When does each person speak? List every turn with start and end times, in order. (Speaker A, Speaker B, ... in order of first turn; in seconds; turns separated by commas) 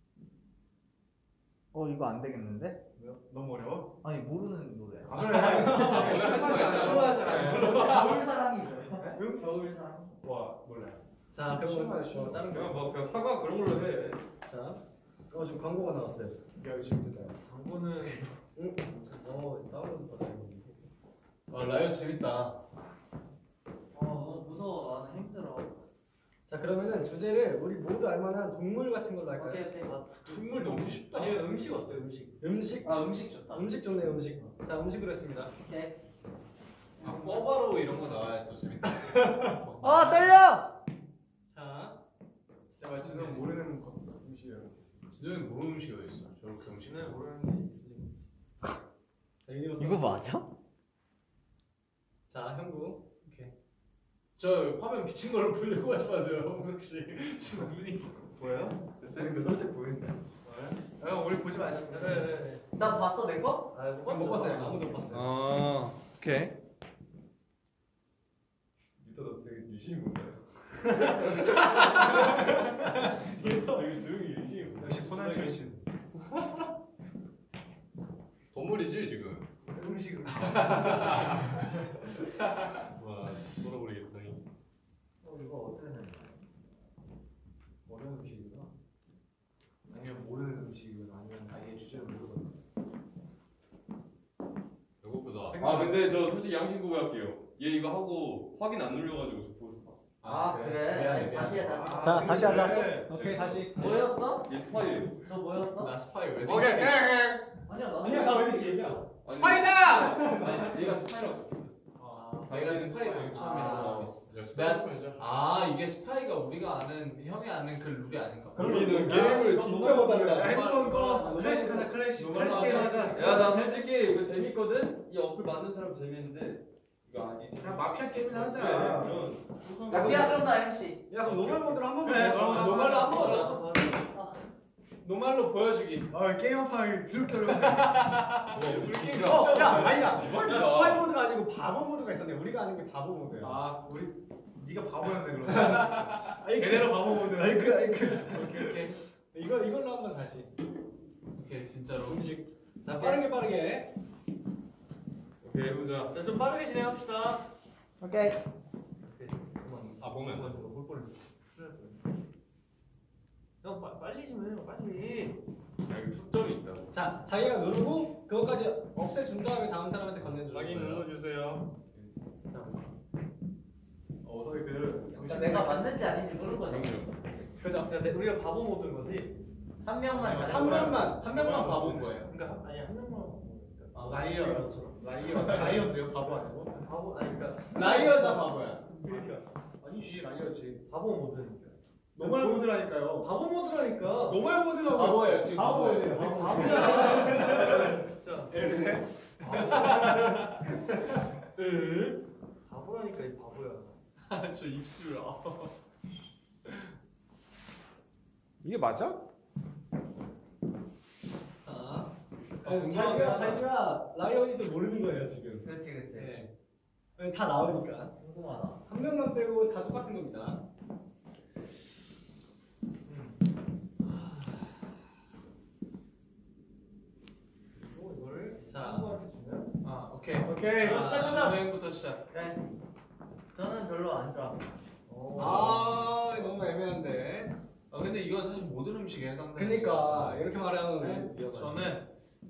Speaker A: 1.7-2.8, Speaker B: 3.1-3.9, Speaker A: 4.0-10.2, Speaker B: 5.1-8.1, Speaker C: 5.3-6.2, Speaker D: 5.6-8.2, Speaker E: 5.8-7.2, Speaker F: 7.2-7.7, Speaker B: 9.1-9.6, Speaker D: 10.2-11.0, Speaker C: 11.3-12.6, Speaker B: 11.5-12.8, Speaker F: 12.4-14.2, Speaker C: 14.4-16.4, Speaker B: 16.6-17.4, Speaker G: 17.5-18.4, Speaker C: 18.6-20.9, Speaker D: 21.5-22.6, Speaker A: 23.9-25.8, Speaker C: 26.5-29.7, Speaker A: 29.3-30.1, Speaker G: 29.8-32.4, Speaker D: 30.2-31.5, Speaker C: 32.4-35.5, Speaker D: 32.8-33.6, Speaker A: 35.6-36.0, Speaker D: 37.0-40.4, Speaker A: 37.1-37.4, Speaker A: 39.8-40.7, Speaker C: 41.5-42.0, Speaker B: 42.8-44.8, Speaker D: 43.0-43.5, Speaker D: 45.1-47.2, Speaker G: 46.5-48.2, Speaker C: 49.5-50.3, Speaker A: 49.8-50.5, Speaker C: 52.3-53.0, Speaker D: 53.2-53.5, Speaker D: 54.4-58.4, Speaker B: 58.4-62.4, Speaker D: 59.0-59.5, Speaker C: 59.2-59.4, Speaker G: 61.9-62.7, Speaker A: 62.7-63.7, Speaker G: 63.7-65.0, Speaker C: 64.0-65.3, Speaker D: 65.1-66.5, Speaker F: 69.0-72.2, Speaker C: 71.6-73.9, Speaker F: 73.3-75.6, Speaker B: 74.8-75.8, Speaker E: 78.5-79.5, Speaker G: 79.7-81.0, Speaker B: 79.8-81.1, Speaker E: 80.3-81.8, Speaker D: 80.4-81.7, Speaker E: 82.8-84.4, Speaker A: 85.2-86.4, Speaker B: 87.9-88.7, Speaker B: 89.9-92.5, Speaker E: 95.0-95.6, Speaker B: 95.5-96.0, Speaker F: 95.6-100.1, Speaker D: 100.2-102.1, Speaker A: 100.2-102.6, Speaker B: 101.5-103.2, Speaker C: 102.0-104.0, Speaker F: 103.0-105.3, Speaker A: 103.7-104.5, Speaker A: 105.2-106.0, Speaker D: 105.8-107.0, Speaker E: 106.4-107.6, Speaker A: 107.7-109.0, Speaker C: 108.0-109.1, Speaker F: 109.2-112.0, Speaker B: 109.3-111.0, Speaker C: 110.1-110.6, Speaker B: 112.0-112.6, Speaker D: 112.4-123.7, Speaker F: 112.5-114.2, Speaker C: 113.2-113.6, Speaker A: 113.3-114.1, Speaker E: 114.1-115.3, Speaker C: 118.6-123.0, Speaker B: 118.6-123.2, Speaker F: 118.7-119.4, Speaker A: 122.4-123.8, Speaker F: 123.1-129.5, Speaker B: 127.6-129.4, Speaker D: 129.7-130.3, Speaker A: 129.9-131.1, Speaker C: 129.9-133.0, Speaker D: 131.2-133.6, Speaker B: 132.0-133.3, Speaker G: 132.8-134.2, Speaker A: 133.2-134.4, Speaker D: 135.0-136.1, Speaker B: 136.1-138.3, Speaker D: 137.6-140.4, Speaker F: 138.5-141.1, Speaker C: 139.2-143.6, Speaker E: 139.7-140.5, Speaker B: 143.4-148.4, Speaker C: 145.4-150.5, Speaker D: 148.1-149.0, Speaker D: 151.4-152.3, Speaker C: 152.0-153.9, Speaker G: 152.9-153.2, Speaker F: 155.4-156.1, Speaker G: 156.1-157.5, Speaker A: 158.0-158.4, Speaker G: 159.0-162.0, Speaker E: 160.0-160.8, Speaker G: 163.6-165.4, Speaker F: 165.9-166.9, Speaker C: 166.9-171.1, Speaker E: 170.4-171.8, Speaker G: 172.5-172.9, Speaker B: 174.2-176.0, Speaker A: 175.2-177.5, Speaker C: 177.6-177.9, Speaker G: 177.7-179.4, Speaker A: 179.8-181.1, Speaker B: 180.1-182.0, Speaker C: 180.5-181.2, Speaker D: 180.5-182.3, Speaker G: 181.4-184.9, Speaker D: 183.9-185.9, Speaker B: 184.1-186.8, Speaker G: 186.8-188.4, Speaker D: 187.7-189.0, Speaker B: 189.0-190.8, Speaker G: 190.9-194.5, Speaker B: 192.2-193.3, Speaker B: 194.2-201.2, Speaker D: 194.9-196.8, Speaker C: 195.4-197.6, Speaker G: 196.1-198.6, Speaker G: 199.4-200.6, Speaker D: 199.5-200.6, Speaker G: 201.6-204.0, Speaker D: 204.3-205.7, Speaker D: 206.7-206.9, Speaker B: 208.6-209.2, Speaker C: 211.6-212.1, Speaker C: 212.6-216.5, Speaker D: 212.6-213.7, Speaker A: 215.6-216.4, Speaker C: 217.2-218.1, Speaker A: 218.2-218.8, Speaker C: 218.9-220.6, Speaker G: 223.1-223.3, Speaker G: 227.8-229.7, Speaker C: 228.7-229.1, Speaker D: 229.8-232.2, Speaker B: 230.4-231.2, Speaker G: 230.8-231.6, Speaker C: 230.8-231.5, Speaker A: 232.3-232.6, Speaker A: 233.5-234.7, Speaker G: 235.1-235.8, Speaker D: 235.4-236.1, Speaker C: 235.4-237.5, Speaker D: 237.9-240.6, Speaker C: 239.6-241.6, Speaker B: 241.0-241.3, Speaker F: 241.3-241.9, Speaker D: 241.4-242.1